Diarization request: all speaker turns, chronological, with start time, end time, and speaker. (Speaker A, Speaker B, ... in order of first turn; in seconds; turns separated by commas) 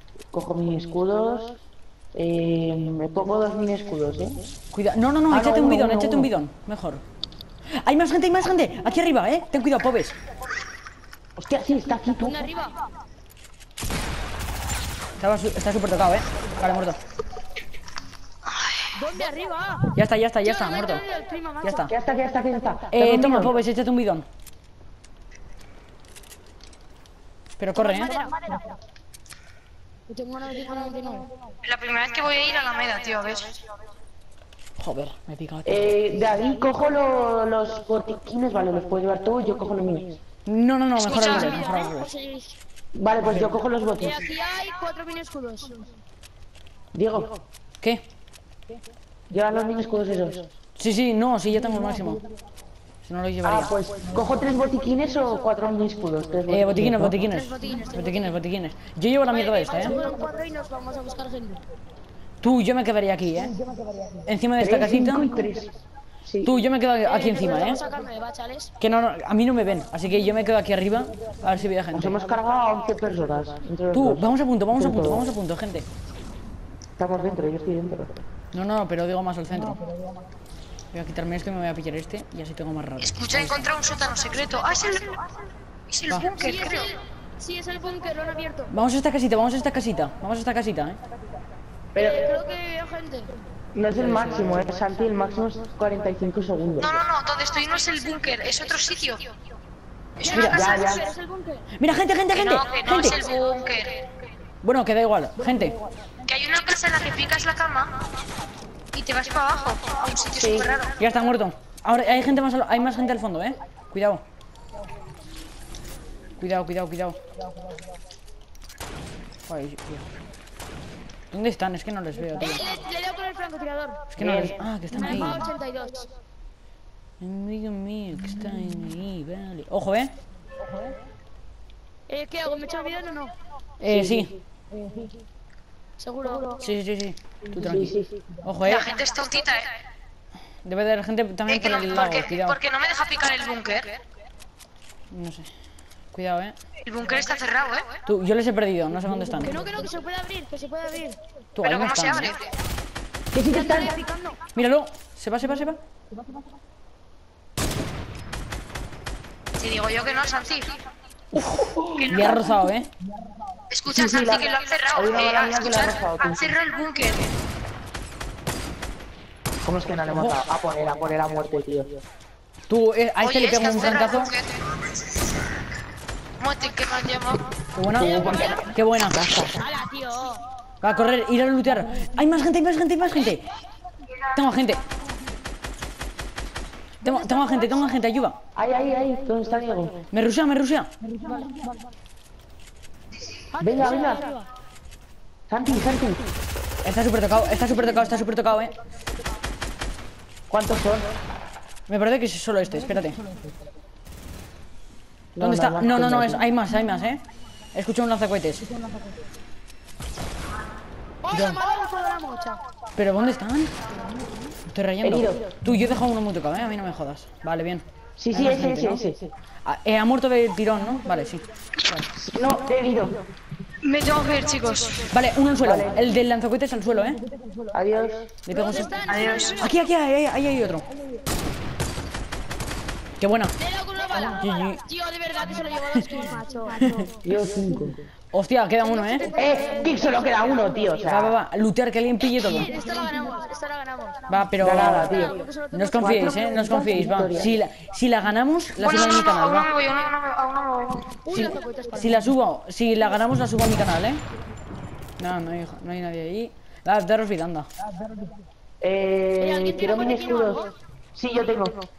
Speaker A: 0.3-1.6, Speaker A: 2.1-4.4, Speaker B: 4.7-7.0, Speaker A: 5.3-6.3, Speaker B: 7.8-10.2, Speaker A: 11.4-12.5, Speaker C: 12.2-12.8, Speaker B: 15.2-17.0, Speaker C: 18.9-19.9, Speaker B: 19.9-21.0, Speaker C: 20.4-21.9, Speaker B: 21.6-21.9, Speaker A: 21.9-23.6, Speaker B: 22.9-24.3, Speaker B: 27.6-28.1, Speaker C: 27.8-28.7, Speaker C: 30.1-31.3, Speaker D: 31.6-33.6, Speaker B: 34.8-35.9, Speaker A: 35.7-40.2, Speaker B: 40.5-42.1, Speaker C: 41.0-42.5, Speaker D: 41.1-41.6, Speaker A: 42.9-44.3, Speaker C: 44.0-45.8, Speaker A: 47.0-47.4, Speaker A: 49.3-50.5, Speaker B: 50.8-52.2, Speaker B: 53.0-53.7, Speaker A: 53.4-57.2, Speaker B: 56.5-60.0, Speaker C: 57.2-58.4, Speaker C: 59.5-61.6, Speaker B: 62.4-63.5, Speaker B: 64.2-65.4, Speaker A: 64.6-66.5, Speaker B: 66.4-67.8, Speaker C: 67.0-68.7, Speaker B: 68.8-72.2, Speaker A: 71.9-75.3, Speaker B: 73.9-75.9, Speaker A: 77.0-78.1, Speaker B: 78.5-79.8, Speaker B: 80.9-83.7, Speaker D: 83.0-86.9, Speaker C: 86.3-88.7, Speaker B: 88.7-91.0, Speaker A: 92.0-92.3, Speaker C: 92.0-93.3, Speaker A: 93.8-97.0, Speaker D: 96.8-99.3, Speaker D: 100.2-101.0, Speaker B: 100.3-100.7, Speaker C: 100.3-101.7, Speaker A: 100.4-101.1, Speaker B: 101.8-103.2, Speaker D: 102.3-104.1, Speaker B: 104.6-105.8, Speaker D: 106.3-107.9, Speaker D: 108.9-110.9, Speaker A: 110.4-110.8, Speaker B: 111.0-114.2, Speaker B: 116.4-117.2, Speaker B: 119.5-120.1, Speaker B: 121.3-122.7, Speaker C: 122.4-124.0, Speaker B: 124.1-125.5, Speaker A: 124.2-124.6, Speaker C: 124.9-126.1, Speaker B: 127.2-130.1, Speaker C: 132.1-133.3, Speaker B: 133.8-134.3, Speaker A: 133.8-134.3, Speaker C: 136.0-136.6, Speaker B: 136.6-138.9, Speaker A: 137.6-138.3, Speaker D: 138.7-139.7, Speaker B: 140.7-142.6, Speaker D: 141.5-144.0, Speaker B: 145.1-145.5, Speaker B: 146.1-146.6, Speaker D: 146.8-148.0, Speaker B: 148.1-149.6, Speaker C: 149.4-151.2, Speaker B: 151.6-152.3, Speaker D: 151.6-152.5, Speaker A: 153.3-154.0, Speaker C: 153.5-154.4, Speaker B: 154.6-155.8, Speaker D: 159.6-160.8, Speaker A: 161.5-162.4, Speaker D: 162.0-162.5, Speaker B: 162.1-162.9, Speaker D: 163.7-167.3, Speaker A: 163.9-166.5, Speaker A: 169.7-172.0, Speaker B: 170.1-170.4, Speaker B: 172.7-174.3, Speaker D: 173.2-174.6, Speaker D: 176.4-177.6, Speaker B: 177.8-179.2, Speaker A: 178.0-179.6, Speaker C: 179.6-180.4, Speaker B: 180.8-183.4, Speaker B: 184.3-184.8, Speaker B: 187.0-188.4, Speaker A: 188.6-190.1, Speaker B: 190.1-190.9, Speaker C: 193.5-194.5, Speaker A: 193.6-194.3, Speaker A: 195.5-196.3, Speaker B: 196.8-198.7, Speaker A: 200.5-201.1, Speaker B: 201.9-203.2, Speaker A: 205.4-206.4, Speaker B: 205.4-207.2, Speaker B: 207.7-208.7, Speaker C: 211.2-212.6, Speaker B: 211.3-211.6, Speaker B: 213.0-213.7, Speaker B: 214.7-219.0, Speaker A: 215.0-215.6, Speaker A: 218.2-219.3, Speaker B: 219.7-221.4, Speaker A: 222.0-223.2, Speaker D: 223.8-225.1, Speaker C: 224.6-225.1, Speaker B: 225.1-227.2, Speaker A: 225.6-226.0, Speaker A: 227.7-228.4, Speaker B: 228.5-230.9, Speaker C: 228.5-229.7, Speaker D: 229.1-229.7, Speaker B: 233.2-233.5, Speaker C: 233.6-237.1, Speaker B: 234.3-234.8, Speaker B: 236.8-237.1, Speaker A: 237.2-238.0, Speaker B: 238.3-239.3, Speaker C: 238.9-240.2, Speaker A: 239.3-241.4, Speaker B: 241.0-242.7, Speaker C: 242.4-244.3, Speaker B: 244.3-249.7, Speaker A: 244.6-245.4, Speaker C: 244.9-246.7, Speaker A: 246.0-247.6, Speaker D: 248.8-251.2, Speaker C: 251.2-252.2, Speaker B: 251.3-254.2, Speaker B: 255.2-257.7, Speaker A: 258.8-261.9, Speaker C: 259.4-260.7